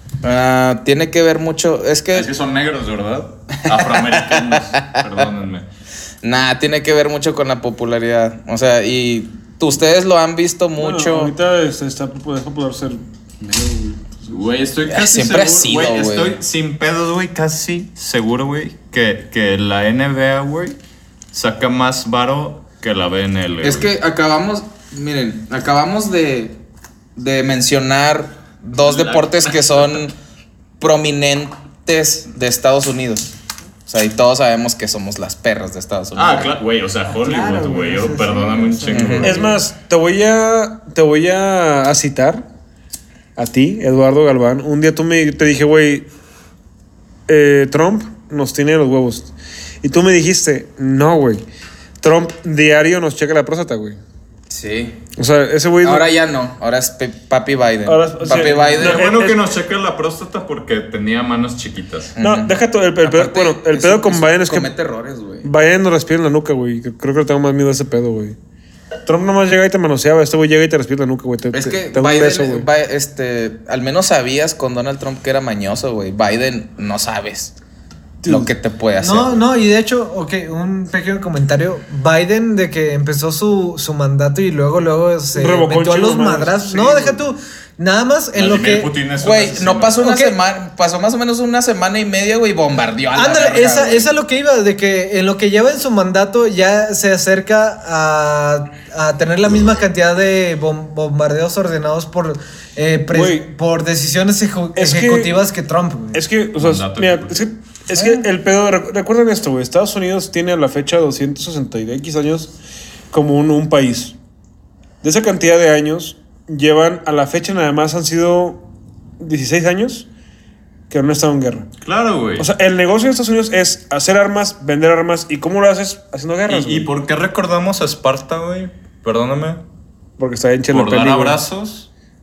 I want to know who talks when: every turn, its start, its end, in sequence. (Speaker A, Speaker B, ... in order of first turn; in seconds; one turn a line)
Speaker A: 0.2-2.3
Speaker B: 2.1-5.7
Speaker A: 3.6-5.2
Speaker A: 6.2-11.3
Speaker C: 10.8-14.3
Speaker B: 14.3-20.8
Speaker A: 14.9-16.4
Speaker B: 21.3-23.9
Speaker A: 23.6-26.6
Speaker A: 27.1-30.1
Speaker B: 28.7-30.0
Speaker A: 30.8-33.3
Speaker A: 33.9-36.6
Speaker B: 36.1-39.5
Speaker D: 37.1-39.6
Speaker A: 38.9-39.4
Speaker C: 39.2-42.5
Speaker C: 43.4-46.1
Speaker C: 47.3-51.4
Speaker C: 52.0-54.0
Speaker A: 54.5-55.0
Speaker C: 55.2-56.1
Speaker A: 55.8-59.2
Speaker C: 57.9-59.4
Speaker B: 58.8-62.1
Speaker A: 62.1-65.5
Speaker C: 62.2-64.7
Speaker C: 65.4-68.4
Speaker C: 69.1-72.7
Speaker A: 71.5-77.5
Speaker C: 78.2-78.5
Speaker A: 78.3-79.4
Speaker D: 79.0-88.9
Speaker C: 85.3-87.2
Speaker B: 88.3-90.0
Speaker A: 89.2-94.1
Speaker D: 90.0-90.4
Speaker D: 93.1-106.2
Speaker C: 103.1-103.5
Speaker C: 104.8-105.4
Speaker C: 106.1-112.5
Speaker B: 106.6-107.5
Speaker D: 107.9-108.3
Speaker C: 113.1-114.1
Speaker C: 115.0-118.6
Speaker C: 119.2-120.1
Speaker C: 120.9-121.7
Speaker B: 121.8-122.5
Speaker C: 122.4-126.9
Speaker B: 126.5-129.6
Speaker C: 130.2-131.4
Speaker B: 130.7-131.9